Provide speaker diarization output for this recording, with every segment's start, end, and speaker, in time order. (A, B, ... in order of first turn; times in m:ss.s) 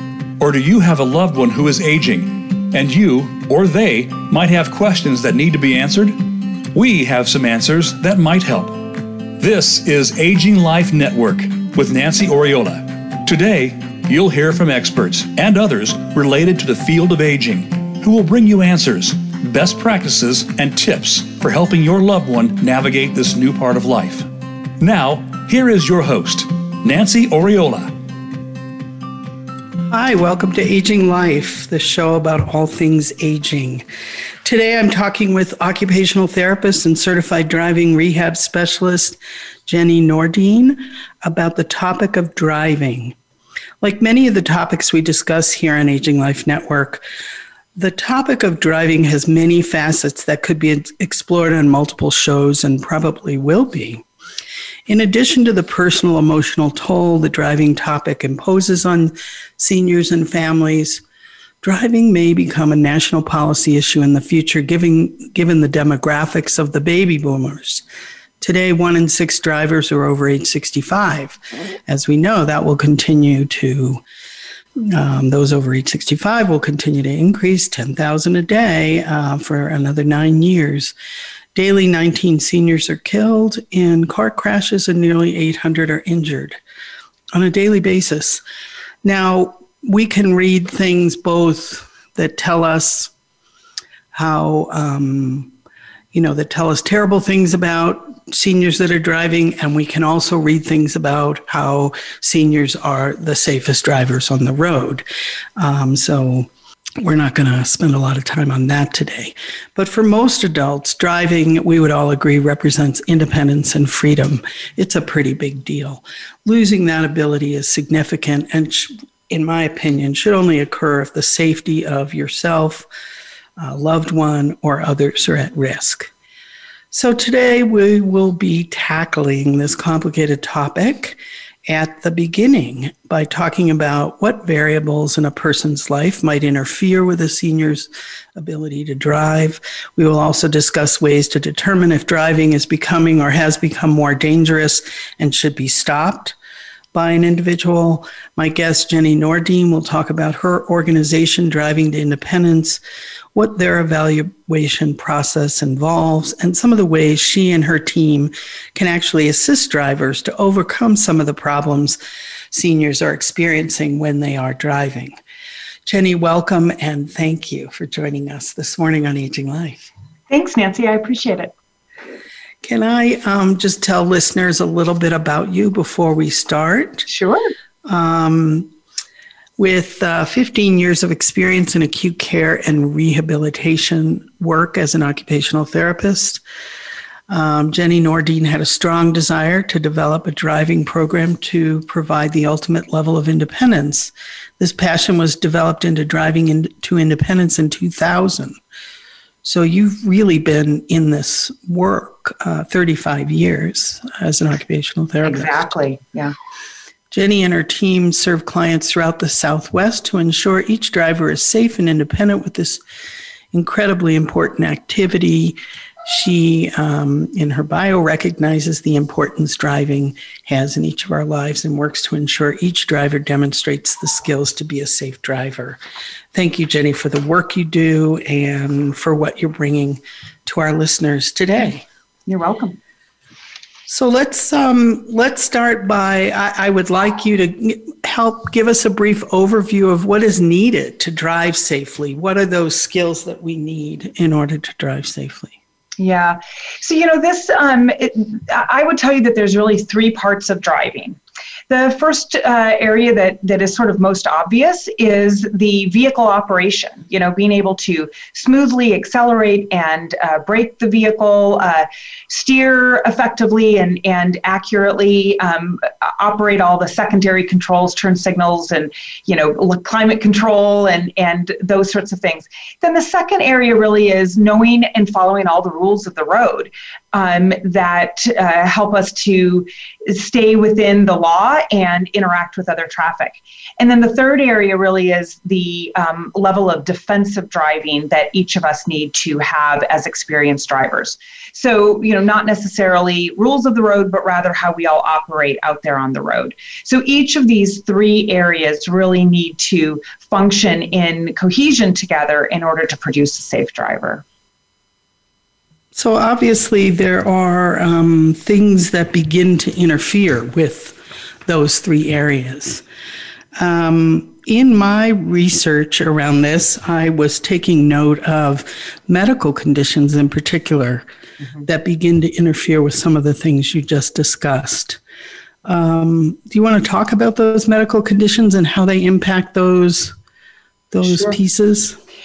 0:00.4-0:24.3 A
0:24.8-0:27.9 A
0:29.9-0:33.9 B
0:34.4-0:43.2 B
0:43.8-0:47.0 B
0:47.8-0:54.0 B
0:54.9-1:01.0 B
1:01.6-1:07.8 B
1:08.4-1:14.0 B
1:14.8-1:21.0 B
1:21.6-1:26.6 B
1:27.3-1:28.4 B
1:29.0-1:33.1 B
1:34.1-1:35.5 B
1:36.1-1:45.1 B
1:45.6-2:02.9 B
2:03.6-2:06.1 B
2:06.9-2:26.4 B
2:26.9-2:32.8 B
2:33.3-2:42.0 B
2:42.5-2:45.2 B
2:45.9-2:49.8 B
2:50.3-2:51.5 C
2:52.6-2:57.1 B
2:57.1-2:57.5 C
2:57.9-2:58.7 B
2:59.6-3:06.4 B
3:07.3-3:18.6 B
3:19.4-3:25.7 B
3:25.2-3:26.3 C
3:27.1-3:32.8 B
3:33.5-3:45.8 B
3:46.3-3:51.8 B
3:52.3-3:52.8 C
3:53.9-4:05.6 B
4:06.0-4:11.2 C
4:11.7-5:04.2 C
5:05.9-5:12.8 B
5:13.6-5:21.1 B
5:21.6-5:25.0 B
5:25.6-5:30.2 B
5:30.9-5:32.0 B
5:31.0-5:31.4 C